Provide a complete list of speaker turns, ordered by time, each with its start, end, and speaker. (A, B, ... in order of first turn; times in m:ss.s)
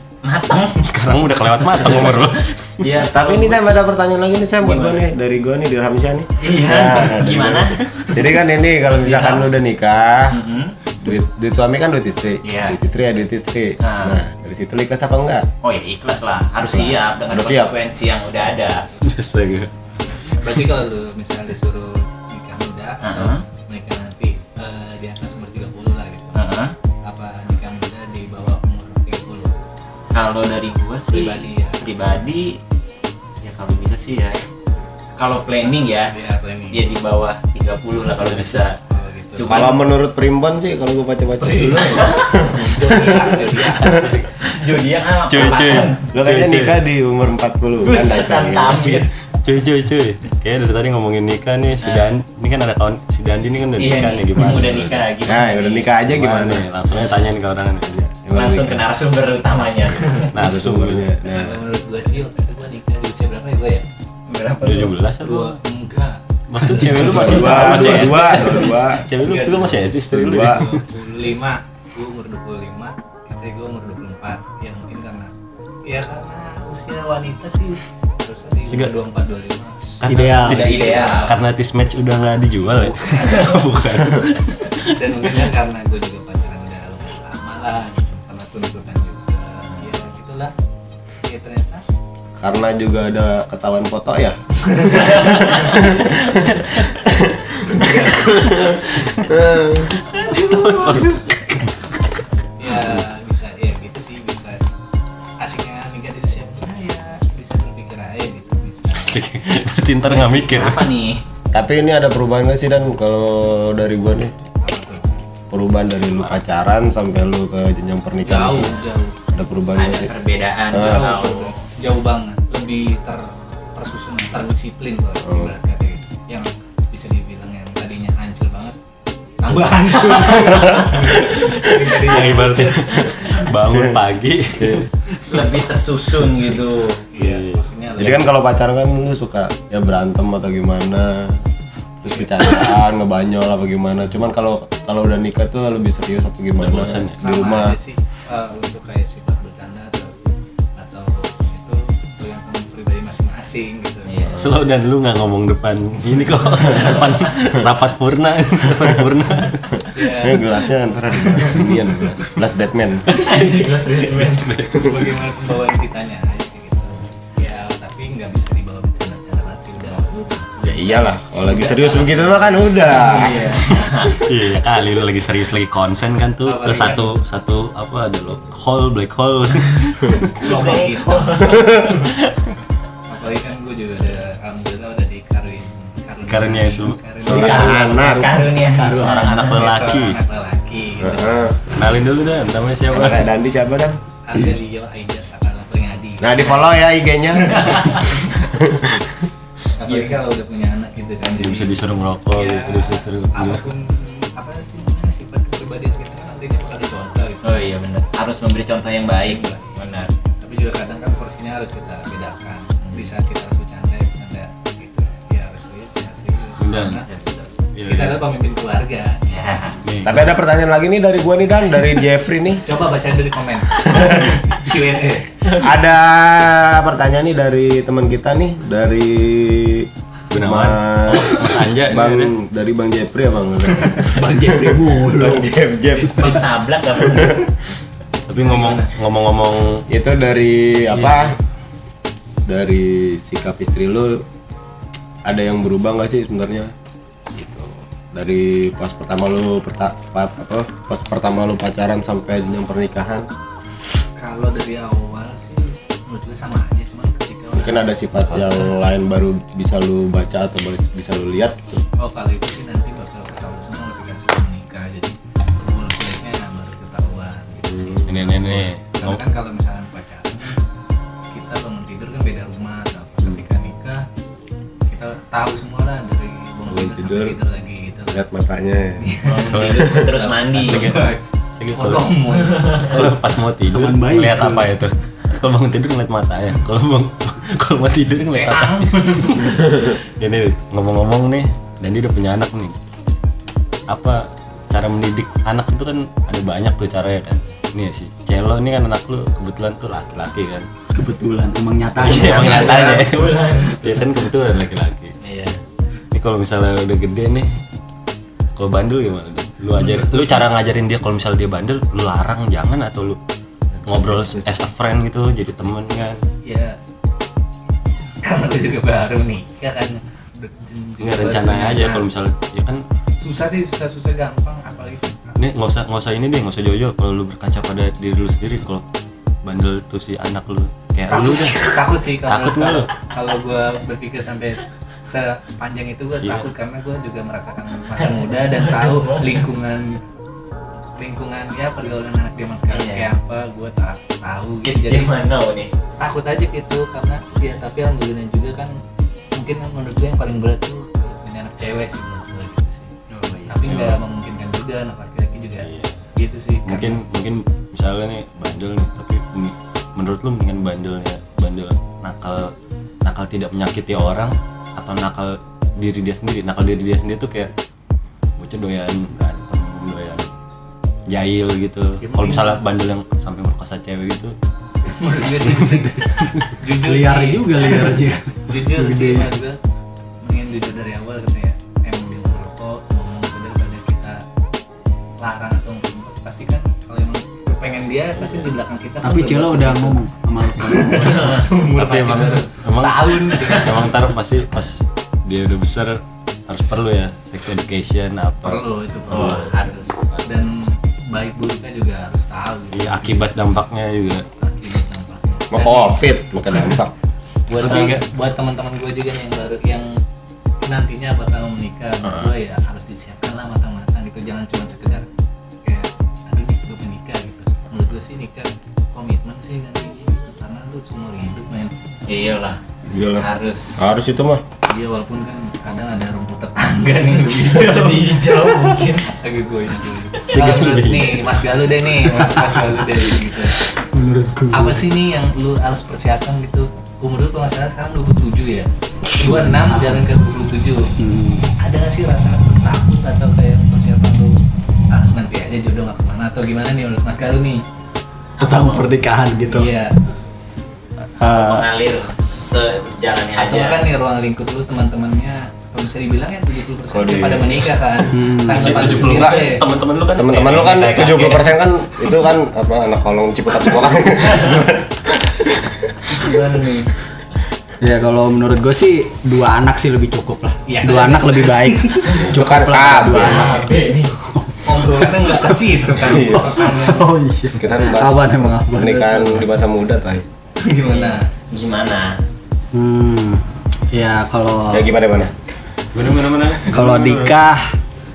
0:00.2-0:00.8 A
0:00.8-0:02.9 B
0:01.6-0:02.2 A
0:02.8-0:03.9 A
0:03.0-0:10.4 C
0:04.6-0:05.0 A
0:06.4-0:07.8 A
0:07.2-0:08.0 B
0:08.9-0:09.5 A
0:10.3-0:10.7 A
0:11.0-0:15.4 C
0:12.4-0:12.8 A
0:13.8-0:14.2 A
0:15.6-0:18.8 A
0:16.7-0:17.7 C
0:19.0-0:19.7 B
0:20.3-0:26.4 D
0:23.0-0:23.4 A
0:26.3-0:26.7 A
0:27.0-0:29.5 D
0:30.1-0:32.6 A
0:31.1-0:31.8 D
0:33.4-0:34.4 A
0:35.2-0:36.1 A
0:36.1-0:36.8 D
0:36.7-0:38.7 A
0:38.0-0:38.7 B
0:38.9-0:39.7 D
0:39.3-0:39.8 A
0:39.4-0:43.2 C
0:41.4-0:44.2 D
0:41.8-0:46.0 A
0:43.8-0:44.2 C
0:45.3-0:46.8 B
0:46.1-0:49.0 C
0:47.8-0:49.1 A
0:49.3-0:55.1 B
0:53.8-0:55.9 A
0:55.2-0:56.7 C
0:56.0-0:57.9 B
0:57.9-0:58.8 C
0:58.3-1:00.3 A
1:00.3-1:01.1 B
1:00.4-1:01.6 C
1:01.2-1:03.9 D
1:04.3-1:04.9 A
1:04.6-1:05.6 B
1:05.2-1:07.3 D
1:06.5-1:10.8 B
1:06.7-1:09.0 C
1:07.0-1:08.3 A
1:08.3-1:08.7 D
1:09.2-1:09.8 D
1:10.1-1:10.6 C
1:10.5-1:15.3 D
1:15.8-1:21.3 D
1:18.7-1:18.9 B
1:20.0-1:25.4 B
1:20.1-1:20.7 E
1:20.4-1:21.3 A
1:22.8-1:23.7 D
1:24.8-1:30.5 D
1:31.2-1:31.8 D
1:32.4-1:39.9 C
1:34.9-1:35.8 A
1:37.7-1:38.4 D
1:40.1-1:41.9 B
1:40.8-1:41.2 A
1:42.6-1:44.6 D
1:45.4-1:49.2 D
1:49.0-1:50.9 B
1:50.1-1:51.2 A
1:51.5-1:54.3 C
1:54.6-1:55.2 D
1:55.5-1:58.8 C
1:58.2-1:59.2 D
1:59.3-2:00.1 C
1:59.8-2:01.5 A
2:00.7-2:01.1 C
2:00.8-2:08.8 D
2:05.2-2:05.5 C
2:09.4-2:13.4 D
2:10.5-2:11.0 C
2:12.0-2:14.9 B
2:15.3-2:17.0 A
2:17.1-2:18.3 D
2:17.2-2:17.6 B
2:18.0-2:21.4 C
2:22.0-2:27.8 C
2:26.6-2:27.2 B
2:27.2-2:30.2 D
2:30.7-2:34.1 D
2:34.1-2:34.4 A
2:34.4-2:39.8 B
2:39.9-2:40.4 D
2:40.1-2:43.0 C
2:43.1-2:44.9 B
2:43.1-2:44.5 A
2:44.8-2:53.6 D
2:50.6-2:53.5 C
2:53.1-2:54.2 A
2:53.7-3:00.5 B
2:56.4-2:57.1 D
3:00.3-3:01.7 D
3:00.4-3:02.0 A
3:01.9-3:02.6 B
3:03.1-3:07.7 D
3:06.3-3:07.9 B
3:07.2-3:08.4 C
3:07.3-3:09.6 A
3:07.5-3:09.2 E
3:08.8-3:10.2 B
3:09.2-3:11.5 D
3:11.0-3:11.6 C
3:11.6-3:13.3 B
3:12.9-3:14.4 C
3:14.2-3:16.8 D
3:16.2-3:19.1 C
3:17.5-3:18.1 D
3:19.7-3:21.7 D
3:21.4-3:23.6 B
3:22.3-3:27.6 D
3:27.4-3:30.1 A
3:30.4-3:37.1 D
3:32.8-3:33.1 A
3:36.6-3:37.0 B
3:37.0-3:37.4 A
3:37.7-3:38.1 B
3:37.8-3:39.2 D
3:39.3-3:39.8 A
3:39.8-3:40.4 B
3:40.0-3:42.6 C
3:42.6-3:45.5 D
3:45.6-3:57.4 C
3:50.3-3:52.3 B
3:54.1-3:55.5 E
3:56.1-3:57.4 A
3:58.3-3:59.8 B
3:58.4-3:58.9 D
3:59.9-4:01.4 C
4:00.9-4:01.3 B
4:02.5-4:04.2 C
4:05.2-4:06.7 C
4:07.3-4:13.3 C
4:14.2-4:18.6 D
4:17.5-4:21.8 C
4:22.0-4:30.6 D
4:27.7-4:28.0 C
4:28.0-4:29.2 B
4:31.3-4:34.0 D
4:34.9-4:38.2 D
4:36.7-4:37.4 C
4:38.1-4:40.1 C
4:39.0-4:41.2 D
4:39.2-4:41.0 A
4:39.4-4:39.8 B
4:40.5-4:52.8 B
4:41.7-4:43.1 D
4:42.5-4:42.8 A
4:43.7-4:44.7 E
4:48.4-4:49.5 A
4:53.9-5:00.6 B
5:00.9-5:03.0 E
5:02.0-5:05.1 B
5:02.1-5:03.8 A
5:05.2-5:05.6 A
5:06.1-5:07.5 B
5:08.6-5:13.2 B
5:09.8-5:10.2 D
5:13.8-5:16.2 B
5:16.4-5:16.8 D
5:18.2-5:22.0 D
5:21.0-5:22.8 B
5:23.2-5:25.3 D
5:25.4-5:28.8 B
5:29.4-5:31.7 B
5:31.1-5:40.0 D
5:32.3-5:32.9 B
5:37.9-5:39.4 A
5:41.0-5:45.1 D
5:42.7-5:43.0 A
5:44.6-5:45.7 A
5:46.0-5:48.8 D
5:49.3-5:57.0 D
5:53.4-5:54.0 A
5:53.7-5:53.9 B
5:55.6-5:56.0 B
5:56.6-6:02.5 B
6:03.0-6:07.5 B
6:08.4-6:10.3 B
6:11.1-6:14.3 B
6:12.0-6:12.6 D
6:14.9-6:19.6 D
6:15.4-6:15.8 B
6:16.6-6:19.3 E
6:20.2-6:24.2 D
6:25.2-6:30.0 D
6:28.2-6:28.5 B
6:29.0-6:31.3 E
6:30.6-6:33.9 D
6:31.0-6:31.5 A
6:31.4-6:39.4 B
6:33.3-6:33.6 A
6:38.4-6:39.5 D
6:39.1-6:40.0 A
6:40.2-6:43.2 D
6:42.7-6:44.2 B
6:44.4-6:46.7 D
6:45.5-6:46.9 C
6:47.5-6:48.0 A
6:47.5-6:49.9 D
6:47.5-6:48.0 B
6:50.6-6:55.1 D
6:52.0-6:52.3 C
6:55.6-7:01.7 D
7:02.1-7:02.6 A
7:02.9-7:03.2 C
7:03.2-7:03.8 A
7:03.8-7:04.4 C
7:04.7-7:13.6 D
7:07.0-7:09.1 A
7:10.3-7:11.4 B
7:13.9-7:14.9 E
7:14.5-7:20.9 D
7:19.1-7:19.4 B
7:19.7-7:20.0 E
7:21.0-7:21.5 E
7:21.6-7:24.4 D
7:24.9-7:27.6 D
7:28.4-7:28.9 A
7:28.4-7:29.7 E
7:29.5-7:29.9 D
7:31.2-7:31.6 E
7:31.2-7:33.8 A
7:33.4-7:39.6 D
7:36.9-7:37.7 C
7:38.1-7:39.2 E
7:38.5-7:41.5 B
7:39.2-7:39.5 C
7:40.1-7:46.3 C
7:46.2-7:46.8 D
7:46.4-7:46.7 A
7:47.8-7:55.4 E
7:50.7-7:52.2 D
7:52.2-7:53.6 C
7:53.0-7:54.1 A
7:54.6-7:57.1 D
7:56.0-7:56.7 C
7:56.1-7:59.4 E
7:57.6-8:00.2 C
8:00.6-8:01.3 D
8:00.9-8:02.2 A
8:02.7-8:04.9 E
8:04.7-8:05.3 C
8:05.9-8:07.4 B
8:06.7-8:07.7 E